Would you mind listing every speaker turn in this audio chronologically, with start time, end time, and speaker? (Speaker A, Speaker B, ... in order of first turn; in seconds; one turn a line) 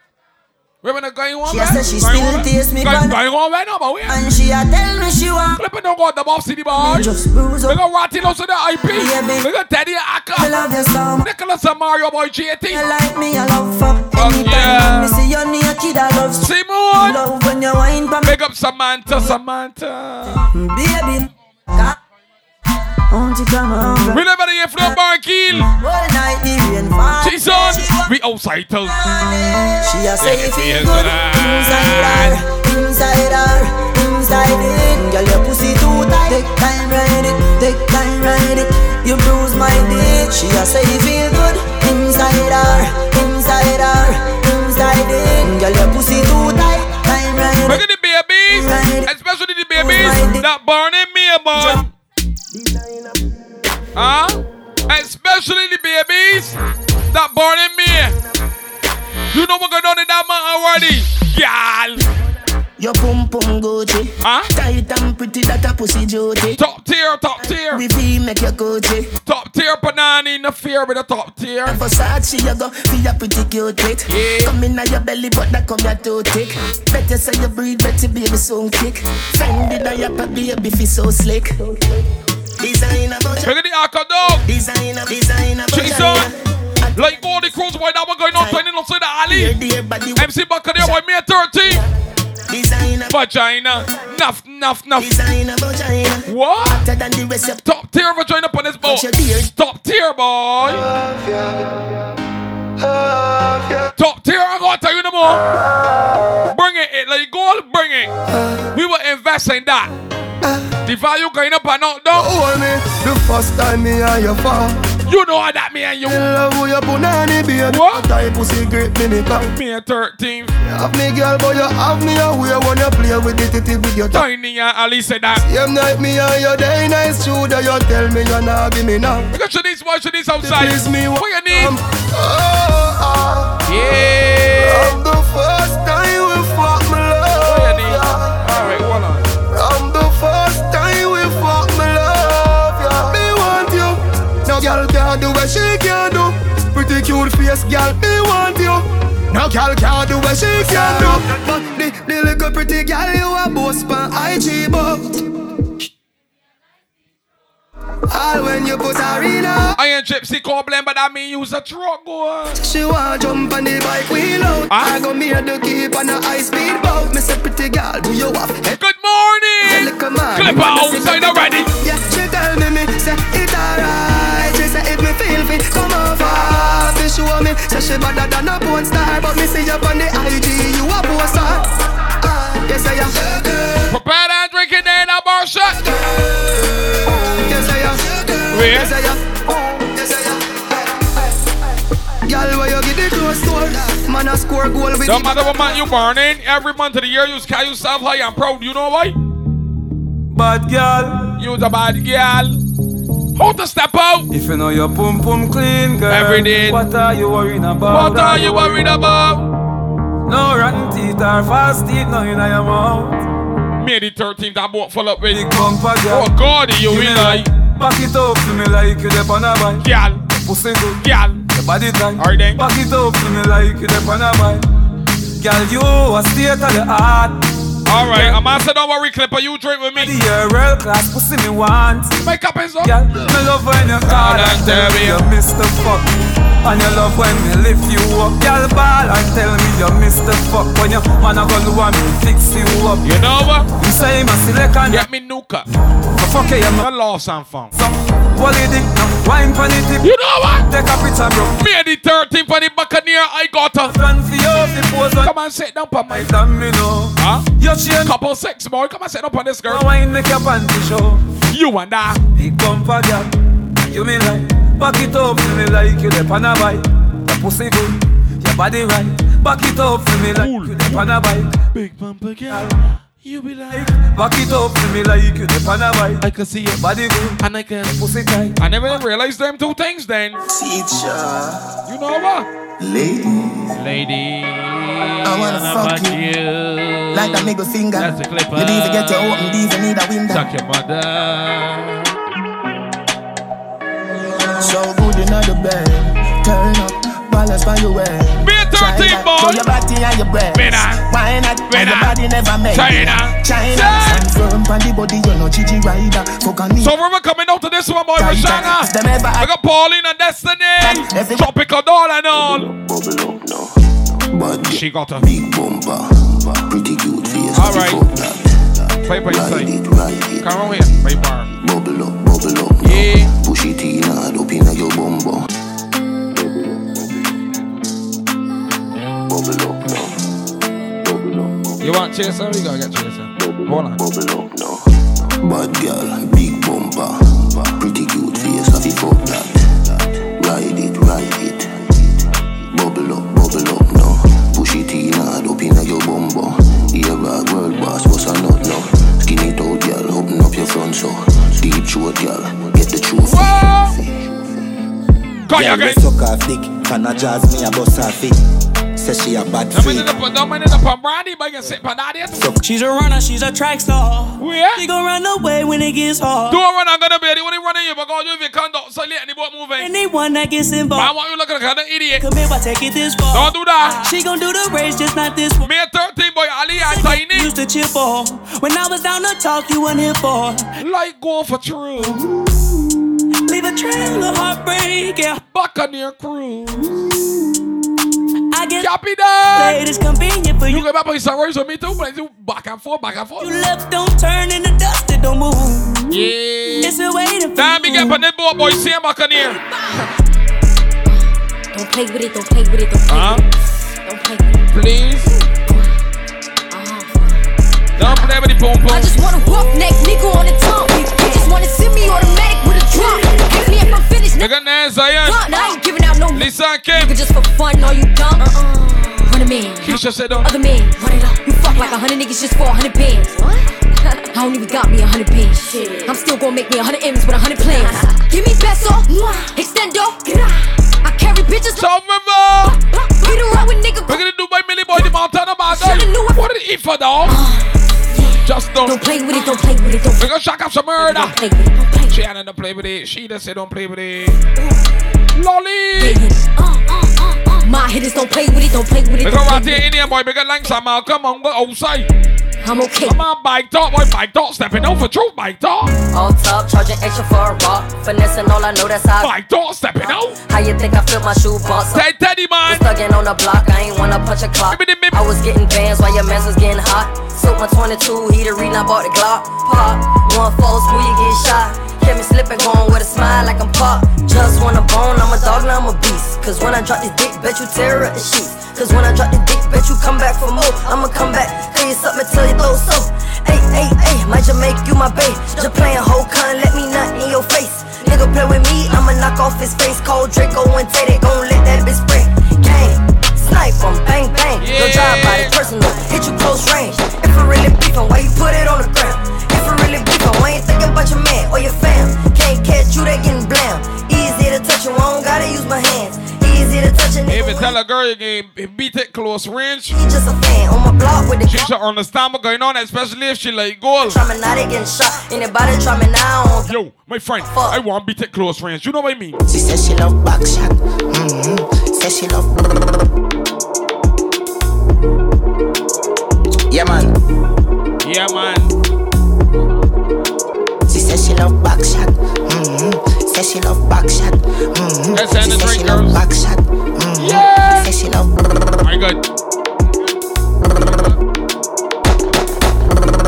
Speaker A: 0.8-4.2
Speaker B: 1.4-3.1
Speaker B: 4.1-5.6
Speaker A: 5.5-7.1
Speaker B: 6.8-7.8
Speaker A: 7.7-10.6
Speaker B: 8.9-9.4
Speaker B: 10.3-11.3
Speaker A: 11.2-12.8
Speaker B: 12.7-18.3
Speaker A: 14.1-15.2
Speaker A: 16.4-17.2
Speaker A: 18.2-20.5
Speaker B: 20.5-21.9
Speaker B: 23.1-24.2
Speaker A: 24.1-25.7
Speaker B: 25.8-28.1
Speaker A: 27.2-29.1
Speaker B: 28.9-47.8
Speaker A: 30.2-32.4
Speaker A: 47.6-51.9
Speaker B: 48.5-49.1
Speaker B: 49.7-50.4
Speaker B: 51.5-51.8
Speaker A: 54.0-56.6
Speaker A: 57.1-58.1
Speaker A: 59.3-62.0
Speaker C: 62.8-66.6
Speaker A: 64.2-64.5
Speaker A: 66.6-67.8
Speaker C: 67.7-69.1
Speaker A: 69.2-71.8
Speaker C: 71.6-81.5
Speaker A: 74.1-74.5
Speaker C: 82.6-83.5
Speaker A: 83.4-84.4
Speaker C: 84.5-87.1
Speaker A: 85.7-86.3
Speaker A: 87.0-89.6
Speaker C: 88.4-88.6
Speaker C: 89.3-90.2
Speaker A: 90.2-91.8
Speaker C: 92.5-93.1
Speaker A: 93.1-95.1
Speaker C: 95.0-97.6
Speaker A: 96.3-96.8
Speaker A: 97.6-100.8
Speaker C: 98.8-99.5
Speaker D: 100.7-101.9
Speaker D: 102.8-103.9
Speaker A: 104.0-105.4
Speaker A: 106.5-108.1
Speaker D: 108.3-108.7
Speaker A: 108.7-109.9
Speaker A: 110.8-112.3
Speaker D: 112.1-114.8
Speaker A: 115.1-116.2
Speaker D: 116.0-119.5
Speaker A: 117.7-118.0
Speaker A: 119.4-120.5
Speaker D: 120.6-124.2
Speaker A: 124.1-125.4
Speaker D: 125.4-129.3
Speaker A: 129.3-131.7
Speaker D: 130.4-133.6
Speaker A: 133.7-134.9
Speaker D: 134.6-138.4
Speaker A: 137.4-139.2
Speaker D: 139.5-155.2
Speaker D: 158.1-159.8
Speaker A: 159.8-162.6
Speaker D: 162.6-168.8
Speaker A: 164.7-165.0
Speaker A: 168.7-171.7
Speaker D: 169.6-181.7
Speaker D: 182.2-183.9
Speaker A: 183.9-185.8
Speaker D: 187.1-191.3
Speaker A: 188.5-188.9
Speaker D: 192.2-195.6
Speaker A: 195.0-199.2
Speaker E: 200.3-201.4
Speaker A: 201.4-202.6
Speaker A: 203.3-204.3
Speaker E: 204.3-209.1
Speaker A: 206.1-206.8
Speaker A: 207.9-209.5
Speaker E: 210.3-213.2
Speaker A: 213.8-217.5
Speaker E: 215.3-224.6
Speaker A: 219.8-220.2
Speaker A: 221.0-221.4
Speaker A: 222.2-222.6
Speaker E: 225.4-227.4
Speaker A: 227.8-230.2
Speaker E: 228.1-228.4
Speaker E: 230.0-232.2
Speaker A: 232.2-233.0
Speaker E: 232.8-236.1
Speaker A: 234.0-235.3
Speaker E: 236.6-243.2
Speaker A: 243.0-243.7
Speaker E: 243.8-245.1
Speaker A: 244.9-245.7
Speaker E: 246.2-246.9
Speaker A: 246.8-247.7
Speaker E: 247.7-250.1
Speaker A: 250.0-250.7
Speaker E: 250.7-251.6
Speaker A: 251.6-254.0
Speaker E: 253.8-255.3
Speaker A: 255.2-256.3
Speaker E: 256.1-258.1
Speaker A: 257.2-259.9
Speaker E: 259.6-261.2
Speaker A: 261.5-262.2
Speaker E: 262.3-271.5
Speaker A: 270.3-271.0
Speaker A: 271.7-272.7
Speaker A: 273.2-273.9
Speaker E: 273.7-278.6
Speaker A: 276.2-276.8
Speaker A: 277.4-278.0
Speaker A: 278.6-280.4
Speaker C: 280.5-281.6
Speaker A: 281.9-282.5
Speaker C: 282.8-283.7
Speaker A: 283.8-289.4
Speaker C: 285.2-286.2
Speaker C: 287.1-290.4
Speaker A: 290.3-292.1
Speaker C: 294.6-306.9
Speaker A: 298.4-299.6
Speaker A: 300.5-301.0
Speaker A: 301.7-302.2
Speaker A: 302.7-304.3
Speaker A: 306.8-312.6
Speaker C: 308.2-309.5
Speaker C: 310.9-311.5
Speaker F: 312.3-313.7
Speaker F: 314.3-320.8
Speaker A: 314.7-315.2
Speaker A: 317.5-318.0
Speaker A: 319.1-319.7
Speaker A: 320.4-321.5
Speaker F: 321.5-325.4
Speaker A: 322.8-323.3
Speaker F: 326.3-327.3
Speaker F: 329.2-330.1
Speaker F: 331.0-331.9
Speaker A: 331.8-334.0
Speaker F: 333.4-354.3
Speaker A: 353.2-353.9
Speaker A: 355.5-356.1
Speaker G: 355.5-358.4
Speaker G: 358.9-360.1
Speaker A: 359.7-362.6
Speaker H: 362.6-366.6
Speaker A: 364.4-364.8
Speaker A: 366.5-369.9
Speaker H: 369.8-371.1
Speaker A: 370.9-372.2
Speaker H: 372.2-375.7
Speaker A: 373.3-374.0
Speaker A: 375.6-377.5
Speaker H: 376.8-380.7
Speaker A: 380.8-382.2
Speaker H: 383.5-385.4
Speaker A: 385.4-387.0
Speaker H: 388.5-388.9
Speaker A: 388.8-389.8
Speaker H: 389.5-390.9
Speaker A: 390.7-393.5
Speaker H: 393.4-396.0
Speaker A: 396.1-397.0
Speaker H: 396.8-398.2
Speaker A: 397.5-399.6
Speaker I: 401.1-403.4
Speaker A: 403.1-403.4
Speaker I: 404.0-404.6
Speaker A: 404.7-405.3
Speaker I: 406.7-407.4
Speaker A: 408.0-409.2
Speaker I: 408.0-408.3
Speaker I: 408.8-414.5
Speaker A: 414.4-415.5
Speaker I: 415.2-423.3
Speaker A: 416.3-417.1
Speaker A: 419.8-420.5
Speaker I: 424.2-431.9
Speaker A: 431.7-432.8
Speaker I: 432.6-434.2
Speaker A: 434.1-437.4
Speaker I: 435.7-436.4
Speaker I: 437.2-440.3
Speaker A: 438.4-439.1
Speaker A: 440.2-441.4
Speaker I: 441.0-442.2
Speaker A: 442.1-444.4
Speaker A: 445.3-446.2
Speaker I: 446.0-449.8
Speaker A: 449.2-452.1
Speaker I: 452.6-453.2
Speaker A: 453.0-455.9
Speaker J: 456.1-459.3
Speaker A: 459.2-460.4
Speaker J: 460.0-462.0
Speaker A: 461.9-462.8
Speaker J: 462.7-507.7
Speaker A: 464.7-465.2
Speaker A: 494.6-495.6
Speaker A: 507.3-509.9
Speaker J: 509.9-511.7
Speaker A: 511.5-514.2
Speaker J: 514.0-516.7
Speaker A: 516.6-519.4
Speaker J: 517.4-517.8
Speaker K: 519.5-522.5
Speaker G: 526.7-527.0
Speaker A: 528.0-528.7
Speaker K: 530.9-538.3
Speaker A: 535.1-536.2
Speaker A: 537.1-537.9
Speaker A: 538.8-539.2